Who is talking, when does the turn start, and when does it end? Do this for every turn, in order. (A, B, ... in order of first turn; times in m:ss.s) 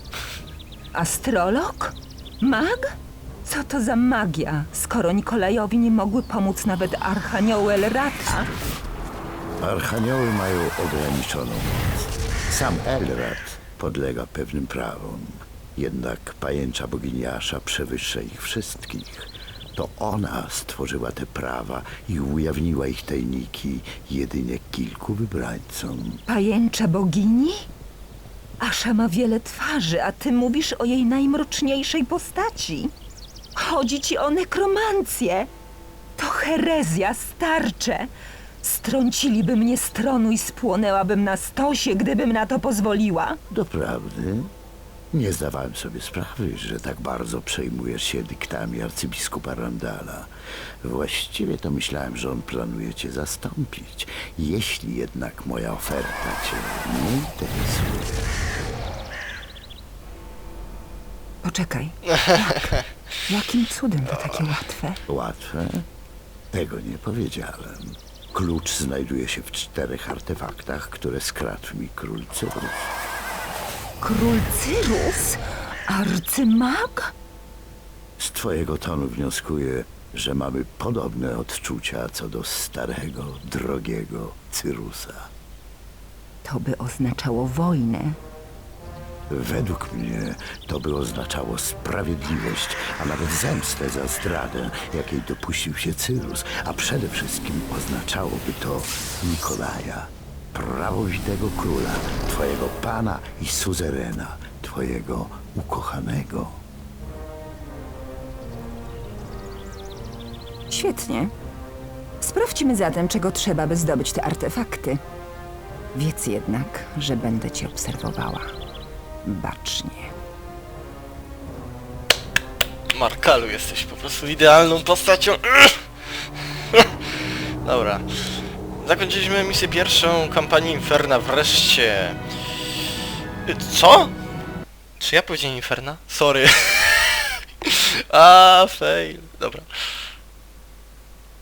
0:00.9-0:08.5 A
0:09.6-0:26.2 B
0:26.3-0:27.7 A
0:28.6-0:32.9 A
0:33.6-0:35.5 A
0:36.2-0:38.1 A
0:38.6-0:43.4 A
0:43.5-0:44.5 B
0:45.1-0:50.3 B
0:50.8-0:58.3 B
1:01.4-1:05.0 A
1:02.1-1:02.8 C
1:05.1-1:05.9 B
1:06.5-1:12.9 B
1:14.0-1:17.1 A
1:18.2-1:25.3 B
1:26.4-1:28.2 A
1:29.3-1:46.6 B
1:50.7-1:51.3 A
1:52.2-1:55.0 A
1:55.9-1:58.5 A
1:59.2-2:00.1 A
2:02.9-2:07.1 C
2:07.6-2:12.2 C
2:13.4-2:14.1 C
2:15.0-2:20.1 C